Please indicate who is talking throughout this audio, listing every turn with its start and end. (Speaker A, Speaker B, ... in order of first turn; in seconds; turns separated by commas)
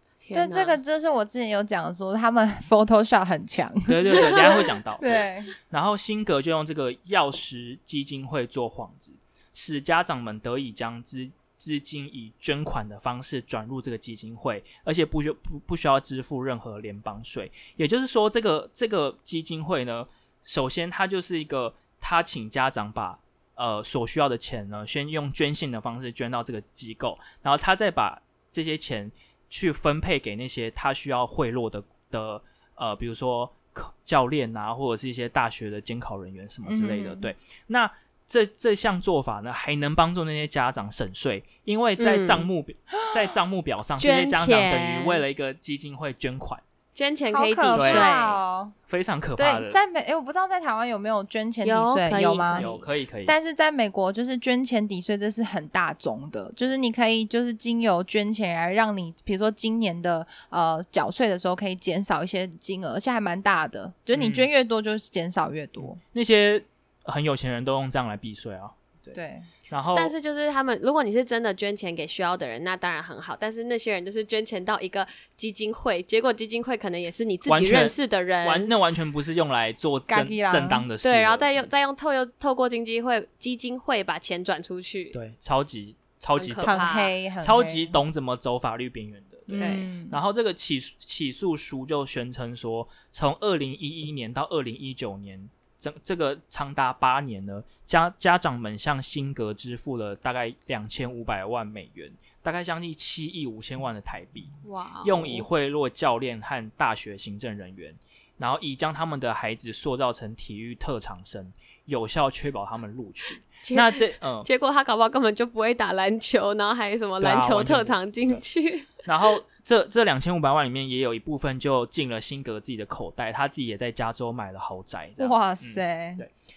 Speaker A: 0.2-0.8, Speaker B: 0.3-5.5, Speaker C: 3.9-46.6, Speaker B: 36.6-37.3, Speaker A: 42.0-42.5, Speaker A: 44.0-45.2, Speaker A: 47.0-48.4, Speaker B: 47.3-48.8, Speaker C: 47.8-48.1, Speaker C: 48.9-49.8, Speaker B: 49.4-52.7, Speaker A: 51.6-52.9, Speaker C: 52.5-53.4, Speaker B: 53.3-66.0, Speaker C: 64.1-64.5, Speaker C: 65.8-69.2, Speaker B: 69.1-69.5, Speaker C: 69.7-70.1, Speaker A: 69.9-78.7, Speaker C: 77.5-81.7, Speaker B: 80.1-80.9, Speaker A: 81.0-85.2, Speaker C: 85.1-86.8, Speaker A: 86.4-87.1, Speaker B: 86.6-88.0, Speaker C: 87.4-114.5, Speaker B: 89.5-90.2, Speaker A: 89.5-89.9, Speaker A: 104.6-105.5, Speaker A: 113.7-119.0, Speaker C: 117.2-118.4, Speaker C: 119.0-126.3, Speaker B: 125.2-126.2